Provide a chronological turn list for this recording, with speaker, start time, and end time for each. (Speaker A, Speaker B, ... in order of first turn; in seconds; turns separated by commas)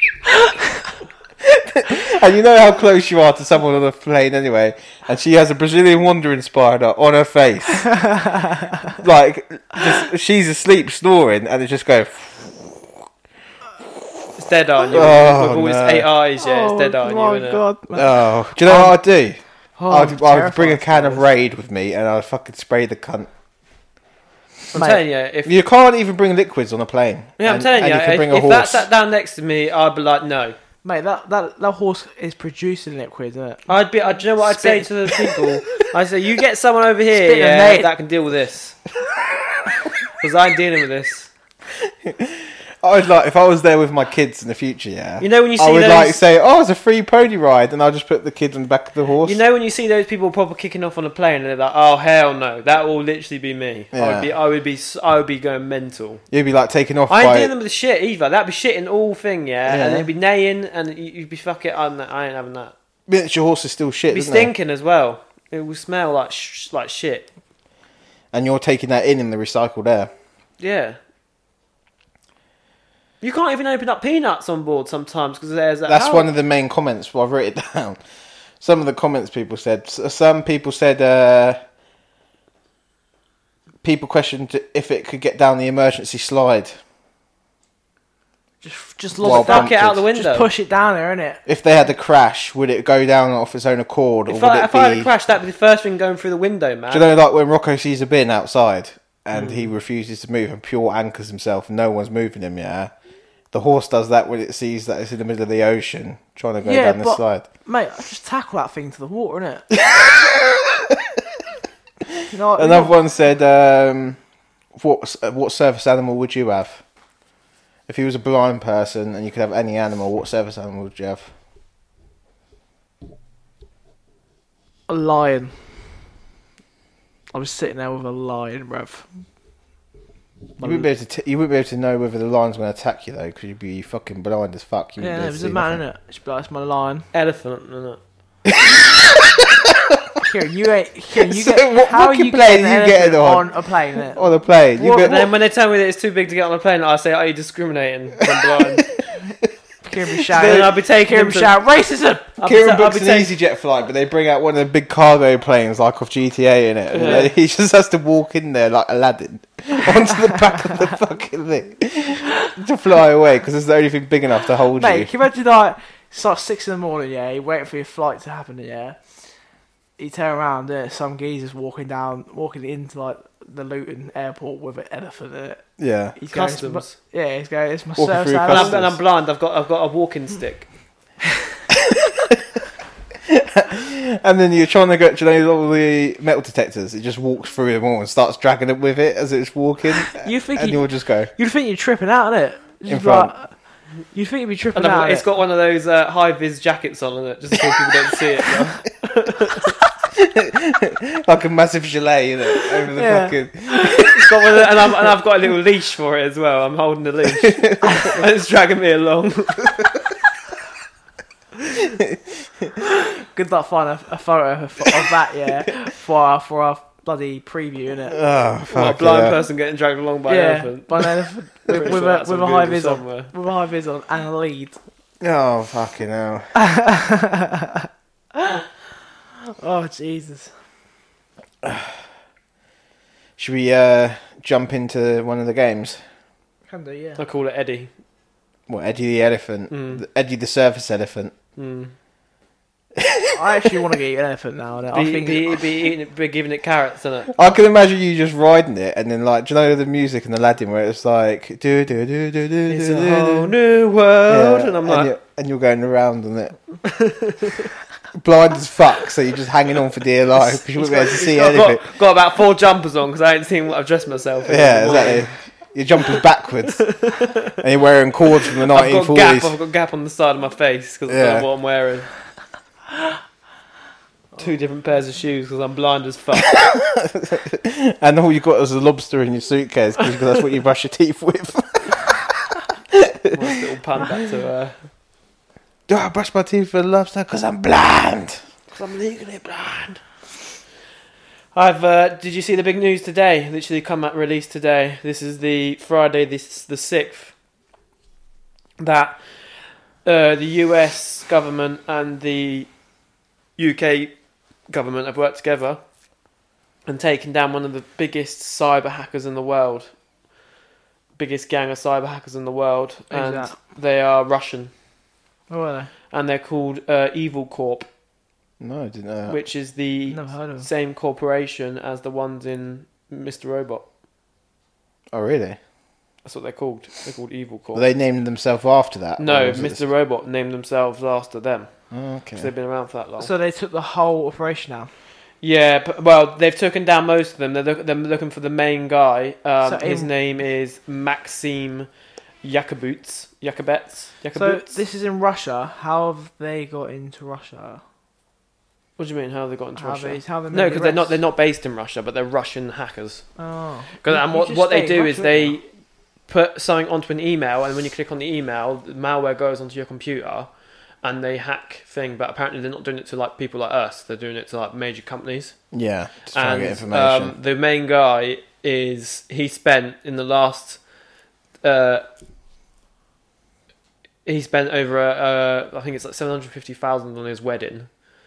Speaker A: 1.4-7.9, Speaker B: 7.9-8.6, Speaker A: 9.0-12.9, Speaker C: 14.4-17.6, Speaker A: 14.9-16.1, Speaker B: 16.4-19.0, Speaker A: 17.9-23.3, Speaker B: 19.8-21.3, Speaker C: 24.7-25.6, Speaker B: 24.8-25.0, Speaker A: 25.4-28.9, Speaker C: 27.4-30.6, Speaker B: 30.8-33.7, Speaker C: 33.7-38.8, Speaker B: 34.4-35.1, Speaker B: 37.1-37.9, Speaker C: 40.2-41.3, Speaker A: 41.9-49.4, Speaker C: 45.2-46.2, Speaker C: 49.2-56.2, Speaker A: 53.9-54.3, Speaker A: 56.3-57.5, Speaker C: 57.1-62.7, Speaker A: 59.7-60.1, Speaker A: 63.1-64.5, Speaker C: 64.1-67.3, Speaker A: 68.3-70.1, Speaker C: 70.6-71.0, Speaker C: 73.2-76.3, Speaker A: 75.9-78.0, Speaker A: 78.6-81.6, Speaker A: 83.8-86.8, Speaker B: 88.6-91.4, Speaker A: 89.2-90.0, Speaker C: 89.2-90.5, Speaker A: 91.5-95.1, Speaker C: 94.3-97.1, Speaker A: 96.9-102.9, Speaker C: 99.3-99.7, Speaker A: 103.5-107.5, Speaker B: 106.6-109.7, Speaker A: 109.8-110.3, Speaker B: 112.3-113.0, Speaker A: 112.5-114.2, Speaker A: 114.8-116.8, Speaker A: 117.9-121.3, Speaker B: 124.9-125.9, Speaker B: 127.3-129.1, Speaker B: 130.6-130.9, Speaker A: 130.6-135.8, Speaker B: 135.0-137.1, Speaker C: 137.1-138.0, Speaker B: 140.2-144.2, Speaker A: 141.2-145.3, Speaker C: 144.8-148.9, Speaker B: 149.8-152.3, Speaker C: 150.3-151.6, Speaker C: 152.4-153.3, Speaker A: 152.4-165.1, Speaker C: 156.9-157.3, Speaker B: 164.7-169.0, Speaker B: 170.0-178.8, Speaker A: 175.8-176.2, Speaker C: 176.3-176.9, Speaker A: 178.0-179.0, Speaker C: 178.5-180.7, Speaker A: 183.3-191.3, Speaker B: 190.1-193.6, Speaker A: 192.9-193.3, Speaker B: 194.1-195.2, Speaker C: 194.7-199.7, Speaker A: 200.2-204.1, Speaker B: 203.0-204.1, Speaker C: 204.2-209.9, Speaker B: 213.3-218.2, Speaker A: 218.1-219.4, Speaker C: 218.7-221.1, Speaker B: 220.3-224.8, Speaker C: 221.7-223.3, Speaker A: 225.2-226.5, Speaker B: 226.6-227.9, Speaker B: 229.6-230.5, Speaker A: 231.6-232.0, Speaker A: 233.4-236.0, Speaker B: 236.7-237.2, Speaker C: 237.2-237.9, Speaker A: 238.7-241.3, Speaker C: 239.7-240.0, Speaker C: 241.6-241.9, Speaker A: 243.0-243.3, Speaker B: 243.3-245.5, Speaker C: 244.9-247.4, Speaker A: 247.3-253.5, Speaker C: 252.7-255.1, Speaker A: 254.3-256.6, Speaker C: 256.9-257.7, Speaker A: 258.1-261.8, Speaker B: 260.8-261.4, Speaker C: 260.8-265.3, Speaker A: 264.4-269.5, Speaker C: 266.8-267.6, Speaker C: 268.6-272.1, Speaker A: 271.1-271.5, Speaker C: 274.4-276.6, Speaker A: 276.6-282.3, Speaker A: 282.9-283.4, Speaker C: 283.3-284.8, Speaker A: 285.9-288.4, Speaker C: 288.7-290.0, Speaker C: 291.5-297.4, Speaker C: 298.8-302.7, Speaker C: 303.6-304.1, Speaker C: 304.7-305.8, Speaker C: 306.9-309.9, Speaker C: 311.2-314.7, Speaker B: 313.1-313.5, Speaker B: 315.5-315.9, Speaker C: 316.1-317.9, Speaker A: 318.6-319.4, Speaker C: 319.3-323.9, Speaker B: 320.1-320.7, Speaker A: 325.1-325.6, Speaker C: 326.2-327.9, Speaker A: 327.7-329.9, Speaker C: 329.2-333.3, Speaker A: 331.9-332.5, Speaker B: 333.2-334.9, Speaker C: 335.4-341.9, Speaker B: 339.6-340.1, Speaker C: 342.4-344.8, Speaker B: 344.4-347.8, Speaker C: 349.0-353.3, Speaker B: 349.8-351.2, Speaker B: 353.4-355.6, Speaker C: 354.0-355.7, Speaker C: 356.3-360.5, Speaker C: 361.0-365.6, Speaker A: 365.7-367.4, Speaker C: 366.3-370.8, Speaker C: 371.6-372.1, Speaker C: 374.2-377.9